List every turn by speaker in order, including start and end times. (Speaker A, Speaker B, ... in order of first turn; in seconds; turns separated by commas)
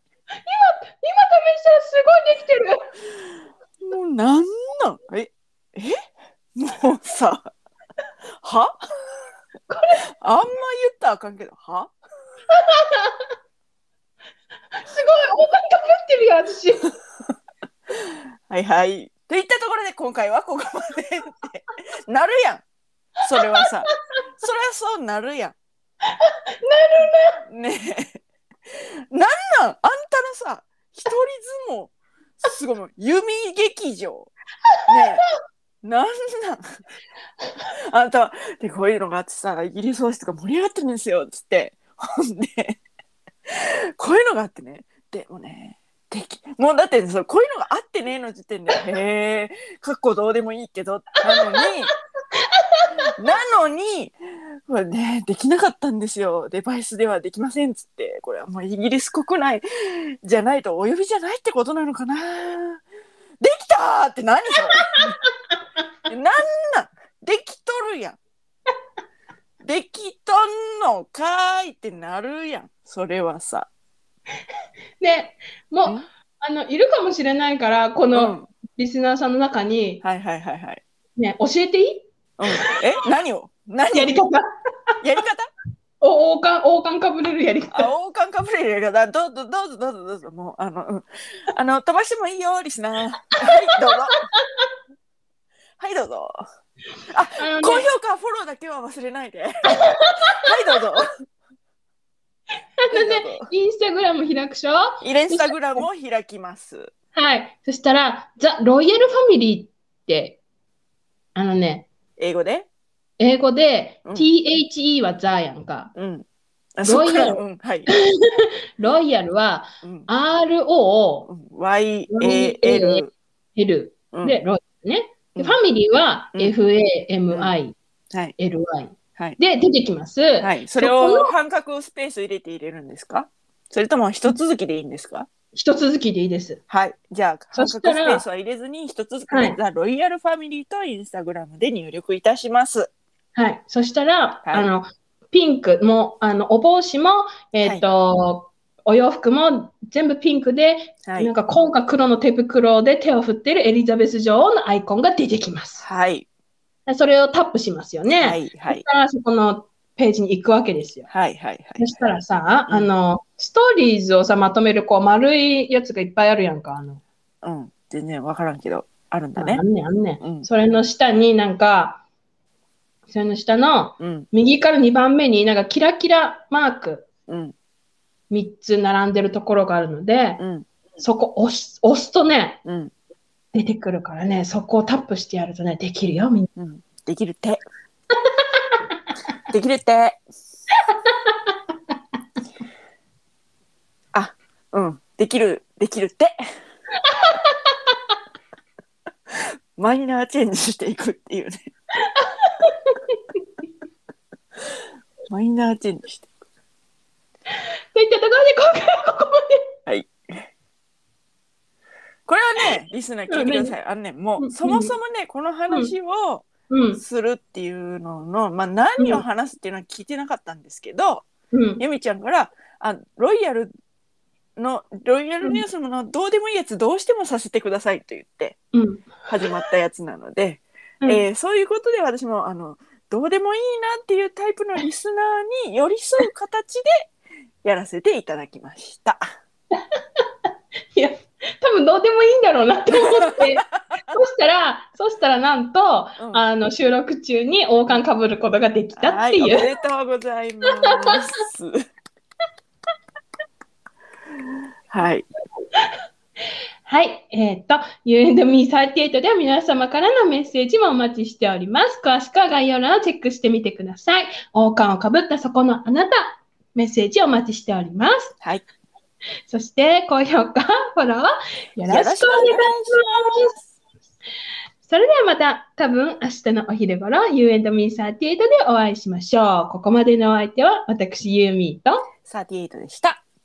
Speaker A: 0.5-2.9, Speaker B: 3.8-6.0, Speaker B: 6.5-7.5, Speaker B: 8.4-8.7, Speaker A: 9.7-10.0, Speaker B: 10.2-11.9, Speaker A: 12.5-13.2, Speaker A: 14.8-16.9, Speaker B: 18.5-22.6, Speaker B: 23.2-25.6, Speaker A: 23.4-23.9, Speaker A: 26.2-27.4, Speaker B: 27.5-28.2, Speaker B: 29.1-34.3, Speaker B: 34.9-35.2, Speaker A: 34.9-35.2, Speaker B: 35.8-36.6, Speaker B: 37.9-42.8, Speaker B: 43.5-51.9, Speaker A: 51.3-52.9, Speaker B: 53.2-54.2, Speaker B: 54.7-62.8, Speaker B: 63.4-65.0, Speaker B: 66.1-68.2, Speaker B: 69.6-73.7, Speaker A: 75.0-80.0, Speaker B: 78.1-78.5, Speaker B: 80.0-80.8, Speaker A: 81.2-82.6, Speaker B: 82.4-84.2, Speaker A: 83.9-84.4, Speaker B: 85.0-85.5, Speaker A: 86.0-87.9, Speaker B: 87.7-94.2, Speaker B: 95.8-96.4, Speaker B: 97.1-101.1, Speaker A: 97.4-97.9, Speaker A: 99.7-100.4, Speaker A: 102.9-105.8, Speaker B: 102.9-103.5, Speaker B: 105.0-106.9, Speaker A: 107.2-110.4, Speaker A: 111.3-111.9, Speaker B: 112.2-112.7, Speaker A: 113.2-115.9, Speaker B: 116.0-116.3, Speaker B: 116.8-117.9, Speaker A: 116.8-121.3, Speaker B: 121.3-123.1, Speaker A: 122.1-127.8, Speaker B: 124.1-124.4, Speaker A: 128.4-131.3, Speaker B: 130.4-135.3, Speaker A: 135.5-136.6, Speaker B: 136.7-142.9, Speaker A: 137.5-138.2, Speaker A: 139.3-139.6, Speaker A: 143.3-155.8, Speaker B: 144.4-144.7, Speaker B: 151.1-151.3, Speaker B: 155.8-156.3, Speaker A: 156.9-161.1, Speaker B: 158.2-158.8, Speaker B: 161.1-161.9, Speaker A: 161.8-167.0, Speaker B: 167.4-169.6, Speaker A: 169.4-172.0, Speaker B: 170.2-170.5, Speaker A: 173.1-177.1, Speaker B: 174.0-174.3, Speaker B: 177.3-177.6, Speaker A: 178.3-180.4, Speaker B: 180.4-180.7, Speaker A: 181.0-182.6, Speaker B: 182.7-182.9, Speaker A: 183.5-186.5, Speaker B: 186.6-187.6, Speaker A: 188.4-188.8, Speaker B: 189.5-190.2, Speaker A: 190.9-191.3, Speaker B: 194.1-196.3, Speaker A: 197.0-197.9, Speaker B: 199.8-201.7, Speaker A: 202.1-203.2, Speaker B: 205.3-206.3, Speaker A: 207.9-209.6, Speaker B: 209.9-210.1, Speaker B: 212.3-221.2, Speaker A: 213.3-213.8, Speaker A: 214.4-215.0, Speaker A: 215.7-215.9, Speaker A: 216.7-217.0, Speaker A: 219.0-219.2, Speaker A: 221.5-221.8, Speaker B: 221.8-223.7, Speaker B: 224.6-228.6, Speaker A: 228.7-229.5, Speaker B: 229.3-237.1, Speaker B: 237.6-239.2, Speaker A: 240.9-249.7, Speaker B: 246.2-246.4, Speaker B: 248.9-251.8, Speaker A: 250.8-251.2, Speaker B: 254.9-255.3, Speaker A: 256.9-268.4, Speaker A: 269.5-273.5, Speaker B: 271.9-273.5, Speaker A: 274.8-282.0, Speaker B: 282.3-283.2